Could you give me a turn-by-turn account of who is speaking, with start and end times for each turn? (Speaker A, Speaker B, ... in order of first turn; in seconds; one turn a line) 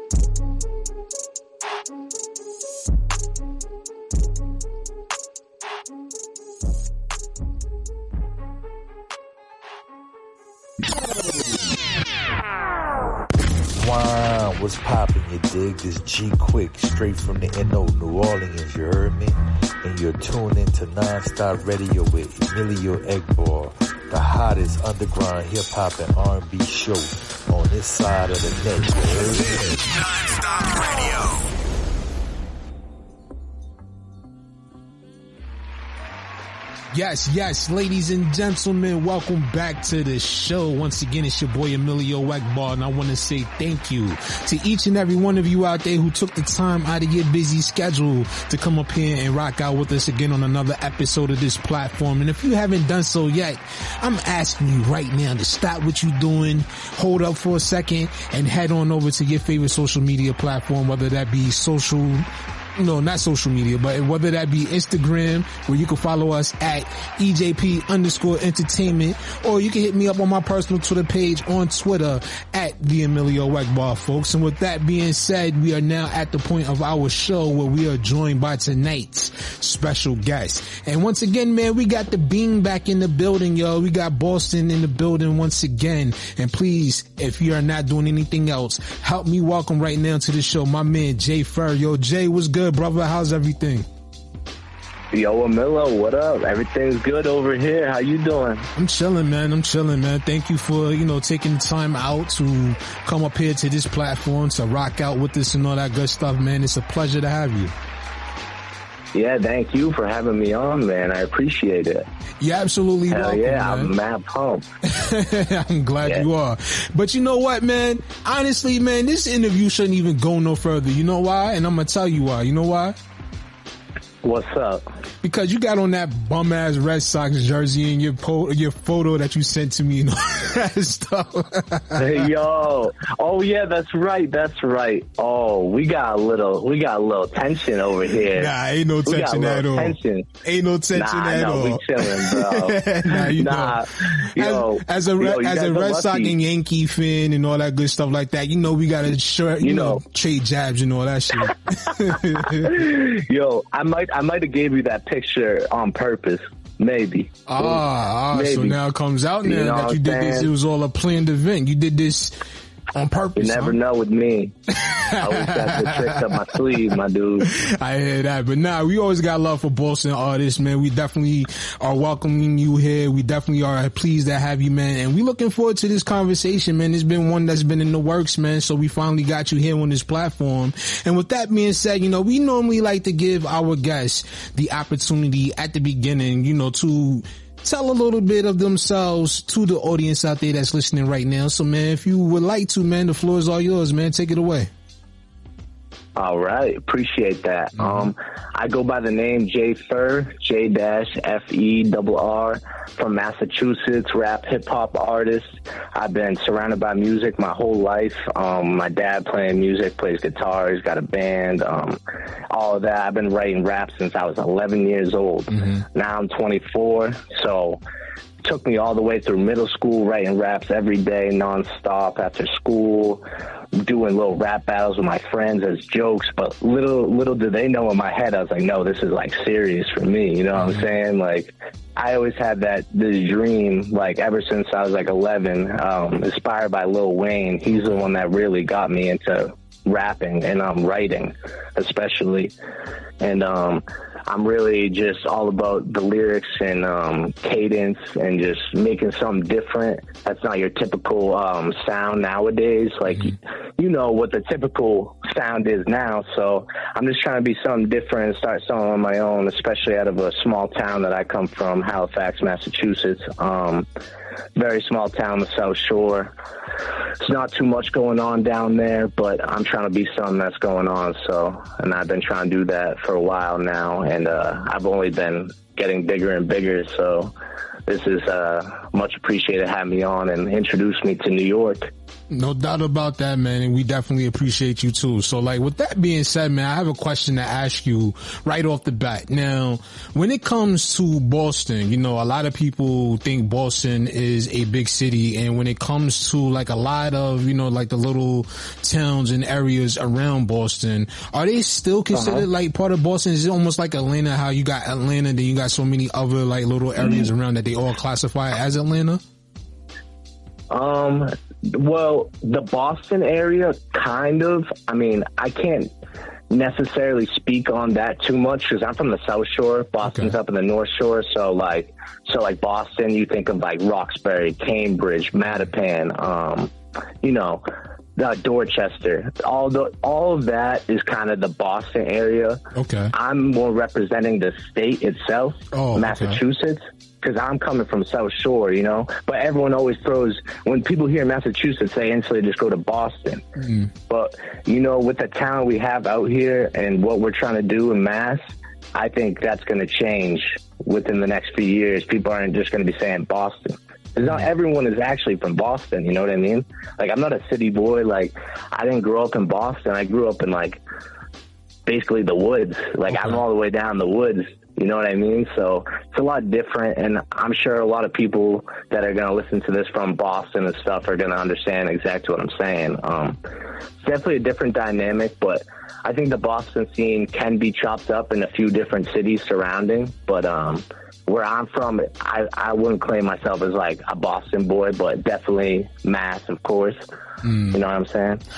Speaker A: 13.7-29.8
Speaker B: 29.0-31.5
Speaker C: 36.9-93.9
Speaker D: 95.1-98.7
Speaker C: 98.8-107.7
Speaker D: 109.1-112.1
Speaker C: 112.4-113.9
Speaker D: 113.1-114.7
Speaker C: 114.9-123.0
Speaker D: 124.2-124.8
Speaker C: 125.2-132.1
Speaker D: 132.0-138.5
Speaker C: 138.3-143.8
Speaker D: 139.1-140.3
Speaker D: 140.9-146.4
Speaker C: 144.4-152.8
Speaker D: 149.6-150.0
Speaker D: 152.6-158.8
Speaker C: 157.5-162.4
Speaker D: 159.4-160.5
Speaker C: 162.9-163.8
Speaker D: 163.4-164.5
Speaker C: 164.8-166.7
Speaker D: 165.2-167.5
Speaker C: 167.5-194.7
Speaker D: 196.2-212.0
Speaker C: 197.8-198.1
Speaker D: 212.5-217.8
Speaker C: 215.5-215.8
Speaker D: 218.4-223.2
Speaker D: 223.8-242.5
Speaker C: 230.6-230.9
Speaker D: 243.2-263.9
Speaker D: 264.6-266.3
Speaker D: 267.2-277.3
Speaker D: 277.9-281.9
Speaker C: 282.3-309.2
Speaker D: 302.1-302.4
Speaker D: 307.0-307.3
Speaker D: 310.7-315.9
Speaker D: 316.5-326.7
Speaker C: 320.0-320.4
Speaker D: 327.2-327.6
Speaker D: 328.2-332.6
Speaker C: 332.8-333.1
Speaker D: 333.1-343.4
Speaker C: 335.7-336.4
Speaker C: 343.6-343.9
Speaker D: 344.1-360.8
Speaker D: 361.9-373.4
Speaker C: 363.1-363.4
Speaker D: 374.0-387.0
Speaker C: 387.4-387.8
Speaker D: 387.7-388.4